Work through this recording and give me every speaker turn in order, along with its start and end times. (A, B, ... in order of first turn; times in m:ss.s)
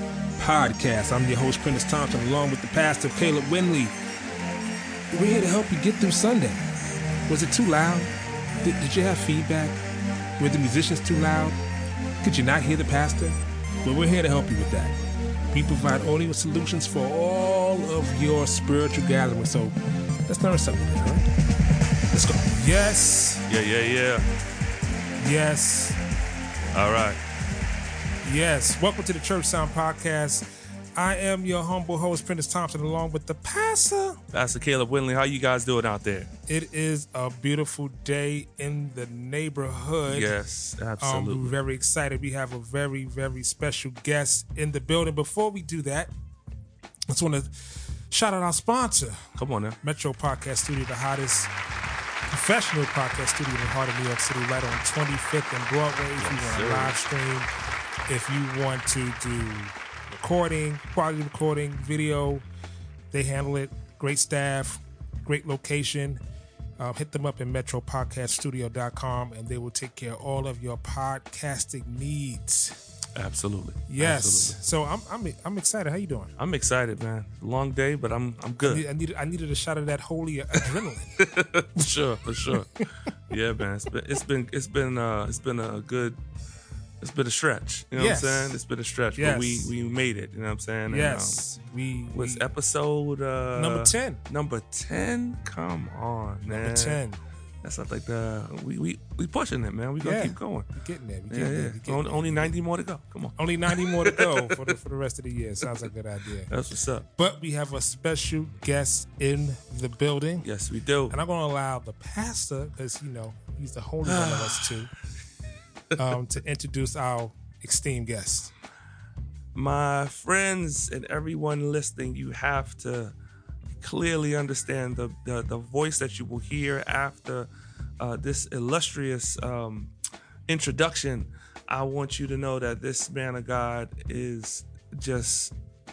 0:00.4-0:03.9 A
0:05.1-0:06.6 A
0:07.3-0:09.8 A
0:10.4-0:11.6 A
0:12.2-0:15.0 A
0:15.5-0:19.8 A
0:20.3-0:21.3 A
0:22.1-0:23.4 A
0:23.5-0:24.2 B
0:25.2-0:26.0 A
0:26.7-0:27.2 B
0:28.2-0:34.2 A
0:34.3-0:36.3 B
0:36.5-0:40.3 A
0:40.1-0:41.5 B
0:41.0-0:46.1 A
0:47.1-0:51.5 A
0:49.4-0:49.8 B
0:52.3-0:57.5 A
0:56.2-0:57.0 B
0:58.1-1:02.4 A
1:03.1-1:06.2 A
1:06.8-1:12.8 A
1:13.2-1:14.6 B
1:13.9-1:16.3 A
1:16.4-1:18.8 B
1:18.6-1:21.2 A
1:21.2-1:26.2 B
1:22.5-1:22.9 A
1:27.0-1:31.4 B
1:28.0-1:28.6 A
1:29.2-1:29.7 A
1:30.9-1:32.4 A
1:32.1-1:37.0 B
1:33.5-1:34.2 A
1:36.5-1:37.2 A
1:37.6-1:40.7 B
1:40.0-1:42.5 A
1:41.3-1:44.7 B
1:43.4-1:46.5 A
1:46.5-1:47.1 B
1:47.2-1:50.5 A
1:50.4-1:51.1 B
1:51.1-1:54.9 A
1:54.0-1:54.9 B
1:56.0-1:58.5 A
1:59.6-2:03.1 B
2:03.8-2:09.9 B
2:10.5-2:15.5 B